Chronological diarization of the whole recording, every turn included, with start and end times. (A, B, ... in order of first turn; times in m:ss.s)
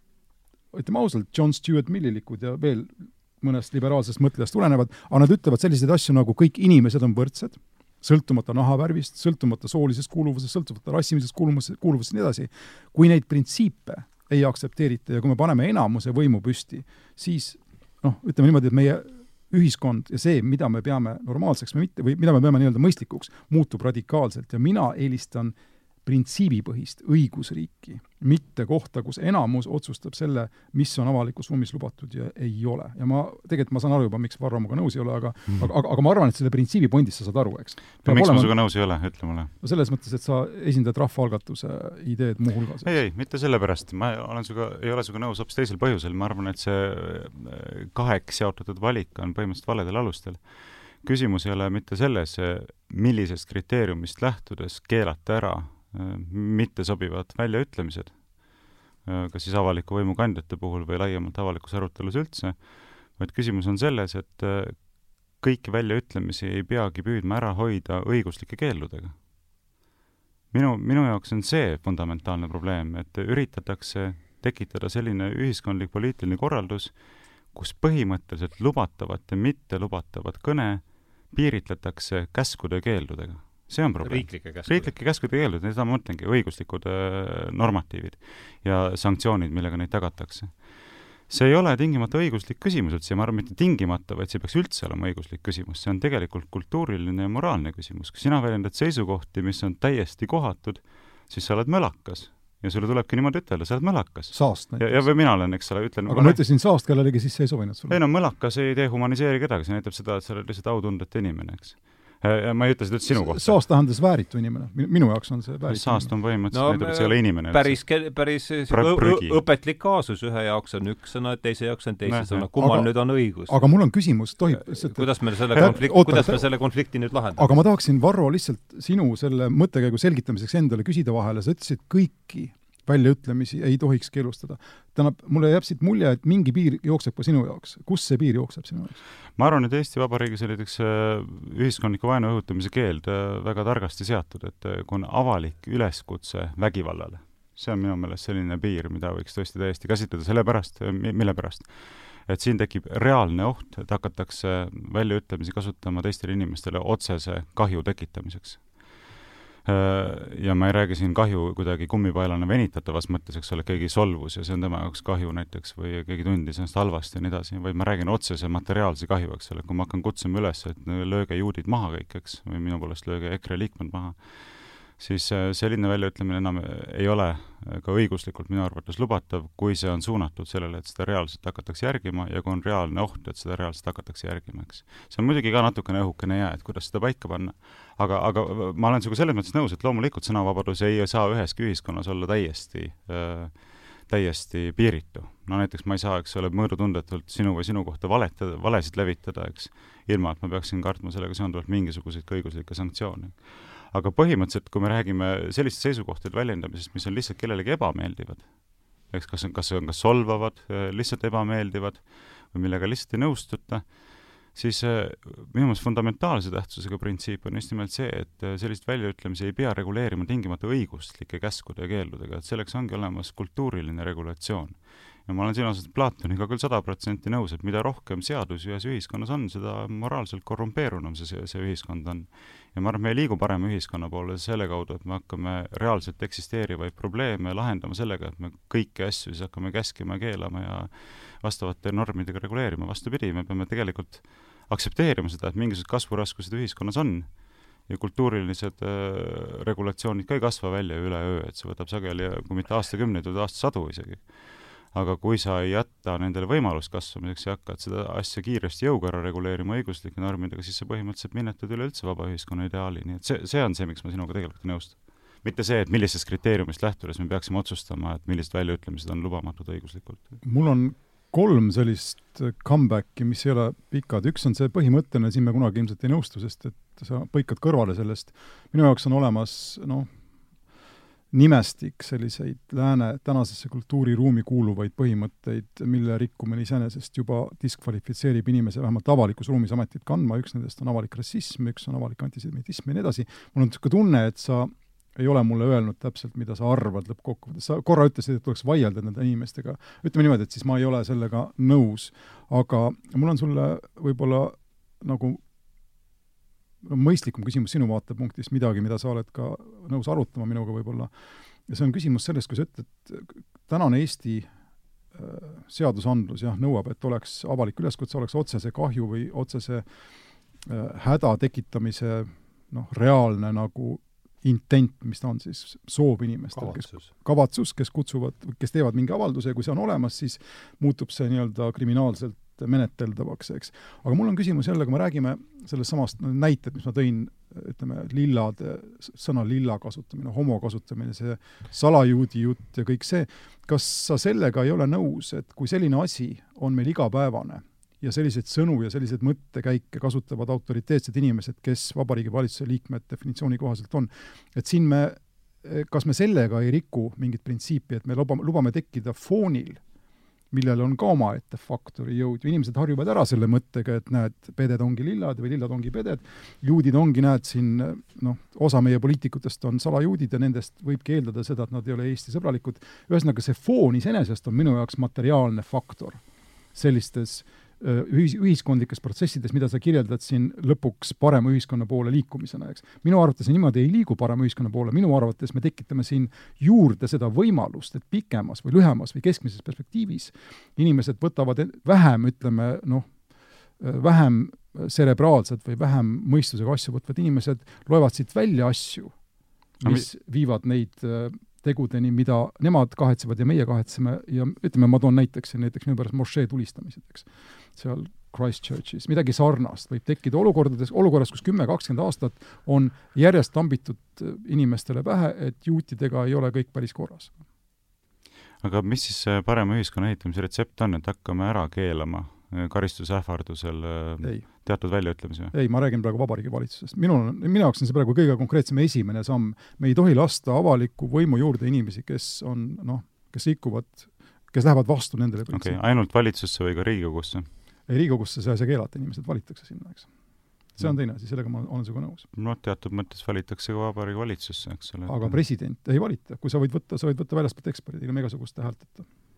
0:00.7-0:38.5 A
0:38.0-0:39.5 B
0:39.6-0:42.9 A
0:42.8-1:09.2 B
1:10.5-1:46.4 B
1:24.0-1:24.9 C
1:44.3-1:45.1 A
1:46.1-1:48.0 A
1:47.9-1:53.6 B
1:53.1-1:56.1 A
1:55.6-1:57.9 B
1:56.5-2:03.6 C
1:58.7-1:59.4 B
2:02.1-2:02.4 B
2:02.6-2:06.4 A
2:04.5-2:07.6 C
2:07.4-2:19.0 A
2:19.4-2:39.1 B
2:39.6-4:30.3 B
4:30.4-4:40.1 A
4:41.3-5:05.4 A
5:06.8-5:11.1 A
5:11.7-5:14.5 A
5:15.1-5:19.8 A
5:20.6-5:59.8 A
5:26.5-5:27.1 C
6:00.5-6:16.2 A
6:16.7-6:33.1 A
6:33.8-6:39.1 A
6:39.8-6:57.3 A
6:58.6-7:05.5 B
7:04.2-7:04.5 A
7:05.5-7:15.8 A
7:15.5-7:17.5 B
7:17.9-7:20.1 A
7:20.7-7:22.3 A
7:22.3-7:25.4 B
7:25.1-7:29.1 A